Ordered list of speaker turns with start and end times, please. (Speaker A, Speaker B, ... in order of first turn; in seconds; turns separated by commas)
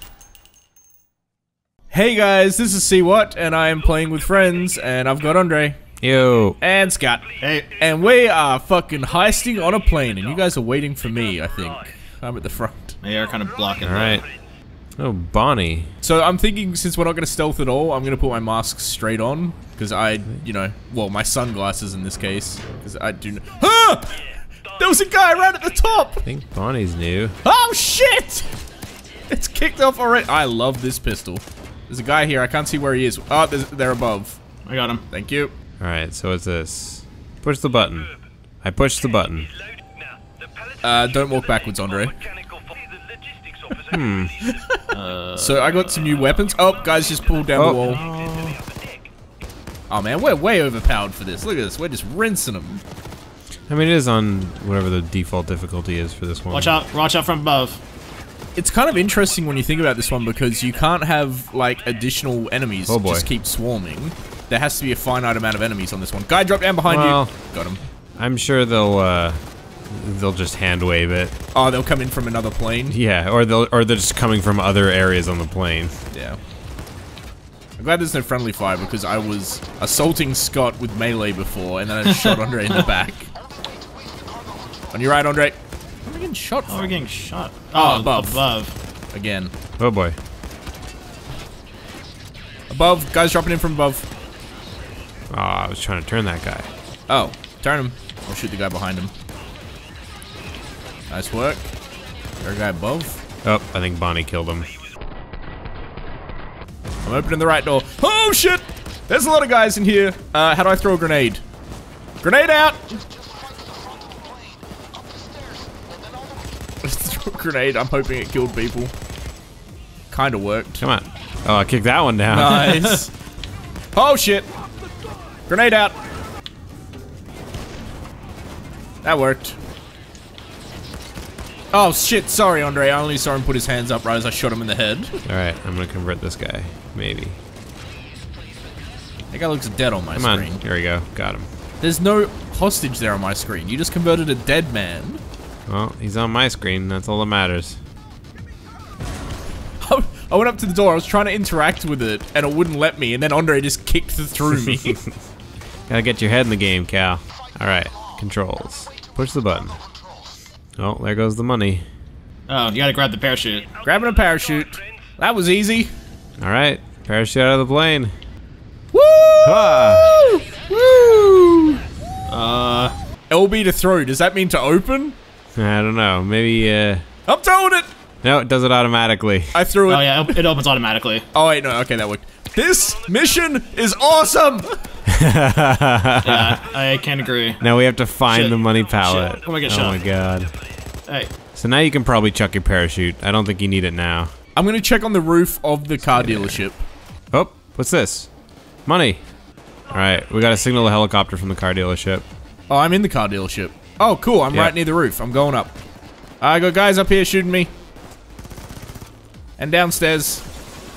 Speaker A: 1.9-5.8, Speaker B: 6.0-6.6, Speaker A: 6.6-7.2, Speaker C: 7.4-7.7, Speaker A: 7.8-13.0, Speaker C: 13.0-14.2, Speaker B: 13.8-14.2, Speaker B: 15.0-15.9, Speaker A: 16.0-24.2, Speaker A: 24.7-26.3, Speaker B: 26.2-27.4, Speaker A: 27.4-28.5, Speaker A: 29.3-34.4, Speaker C: 34.7-35.0, Speaker A: 35.1-35.5, Speaker B: 35.8-38.1, Speaker B: 38.6-39.5, Speaker A: 40.8-42.2, Speaker B: 43.8-44.4, Speaker A: 44.4-44.8, Speaker C: 44.9-45.9, Speaker A: 45.4-48.0, Speaker B: 47.6-48.5, Speaker C: 48.1-48.4, Speaker A: 49.9-52.8, Speaker B: 53.7-56.8, Speaker C: 56.5-57.8, Speaker A: 58.6-67.8, Speaker B: 62.9-63.3, Speaker B: 66.9-67.3, Speaker B: 68.2-71.3, Speaker A: 71.5-73.0, Speaker B: 72.9-75.9, Speaker A: 76.1-76.4, Speaker A: 77.8-83.3, Speaker A: 84.9-87.0, Speaker C: 86.7-88.8, Speaker A: 87.8-88.5, Speaker A: 89.1-89.5, Speaker B: 89.8-90.2, Speaker A: 92.7-94.1, Speaker B: 95.3-96.7, Speaker A: 97.1-99.1, Speaker A: 101.1-101.6, Speaker A: 102.4-103.2, Speaker B: 103.4-104.7, Speaker A: 107.0-111.4, Speaker A: 112.2-113.0, Speaker A: 116.8-118.9, Speaker A: 120.1-120.8, Speaker B: 120.8-122.9, Speaker A: 122.3-123.1, Speaker A: 123.9-124.5, Speaker A: 125.5-126.0, Speaker A: 129.0-129.6, Speaker A: 131.7-135.2, Speaker B: 135.3-137.4, Speaker A: 139.3-140.6, Speaker B: 140.1-141.5, Speaker A: 141.8-145.2, Speaker B: 145.7-147.8, Speaker A: 149.8-155.0, Speaker B: 155.9-159.8, Speaker B: 160.8-161.8, Speaker C: 162.5-163.7, Speaker A: 163.8-165.9, Speaker B: 166.4-168.1, Speaker A: 168.9-171.8, Speaker B: 169.4-170.1, Speaker C: 172.3-172.9, Speaker A: 173.3-175.2, Speaker B: 175.6-177.0, Speaker A: 177.3-177.9, Speaker B: 178.2-179.6, Speaker A: 179.5-180.4, Speaker C: 179.9-181.3, Speaker A: 181.3-184.7, Speaker B: 185.1-186.6, Speaker C: 186.2-187.6, Speaker B: 187.6-190.6, Speaker C: 188.3-190.0, Speaker B: 191.5-194.3, Speaker A: 194.6-196.8, Speaker B: 196.1-196.6, Speaker B: 197.3-198.3, Speaker B: 198.9-199.2, Speaker B: 199.9-202.2, Speaker A: 202.7-205.8, Speaker A: 206.4-207.7, Speaker A: 209.6-210.4